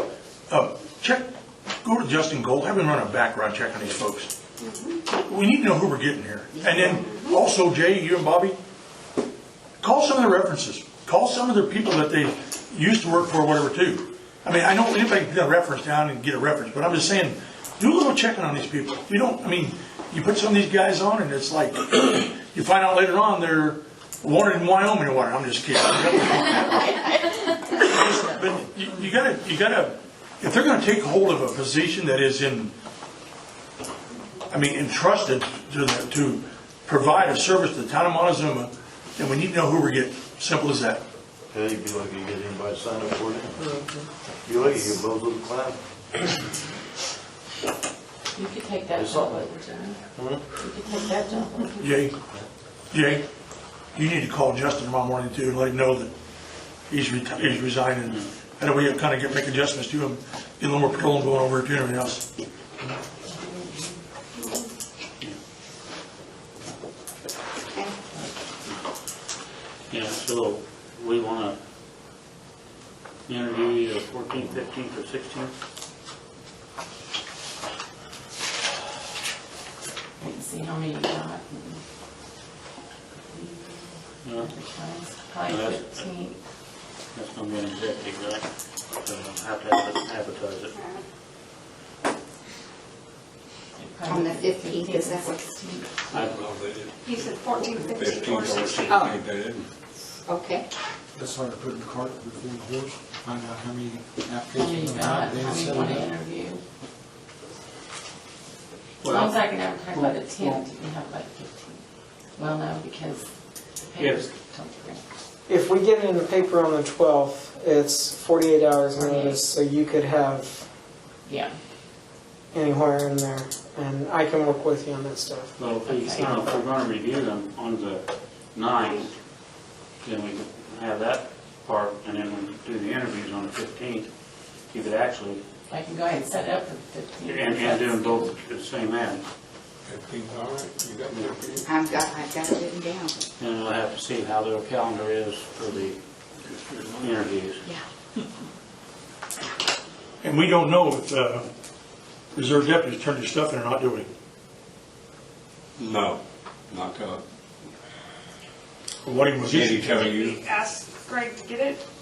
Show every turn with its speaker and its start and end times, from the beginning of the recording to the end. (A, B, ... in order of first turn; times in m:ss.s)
0:00.5-0:04.3 A
0:04.6-0:05.0 B
0:05.1-0:08.6 A
0:06.5-0:07.2 C
0:07.0-0:07.4 B
0:09.8-0:27.1 A
0:27.8-0:32.8 A
0:34.5-0:41.0 A
0:41.5-0:43.7 D
0:44.4-0:45.8 D
0:48.4-0:50.0 E
0:49.0-0:49.4 D
0:50.2-0:50.4 D
0:50.6-0:51.8 E
0:51.8-0:52.2 A
0:52.9-0:53.2 A
0:53.9-0:56.1 A
0:56.9-1:02.2 A
0:57.4-0:58.3 F
1:03.2-1:04.0 E
1:07.7-1:08.0 C
1:09.9-1:11.6 F
1:13.3-1:15.5 F
1:20.2-1:21.8 E
1:23.3-1:26.4 E
1:24.2-1:24.5 F
1:25.5-1:26.1 F
1:27.1-1:28.4 F
1:29.0-1:30.7 F
1:30.8-1:31.0 B
1:33.8-1:35.9 E
1:34.1-1:35.4 C
1:36.1-1:36.4 F
1:36.3-1:37.0 G
1:37.0-1:39.0 B
1:37.9-1:39.7 G
1:38.9-1:39.2 C
1:40.3-1:40.7 C
1:41.2-1:46.1 H
1:44.5-1:46.6 E
1:49.0-1:49.4 F
1:49.1-1:51.8 E
1:49.9-1:50.6 F
1:52.4-1:53.3 E
1:53.8-1:55.0 E
1:54.0-1:54.3 F
1:55.5-2:00.7 I
1:58.9-1:59.5 E
2:01.3-2:01.6 E
2:02.5-2:05.6 I
2:05.6-2:09.1 F
2:05.9-2:06.3 E
2:06.2-2:06.6 I
2:10.0-2:14.1 F
2:14.7-2:15.4 F
2:15.7-2:18.4 E
2:17.2-2:19.2 F
2:19.9-2:21.7 G
2:21.6-2:23.2 C
2:23.4-2:26.0 F
2:26.6-2:27.2 G
2:27.0-2:27.6 F
2:30.2-2:31.5 A
2:32.4-2:34.1 A
2:35.8-2:37.2 G
2:39.0-2:40.1 A
2:39.5-2:40.4 G
2:39.9-2:41.8 B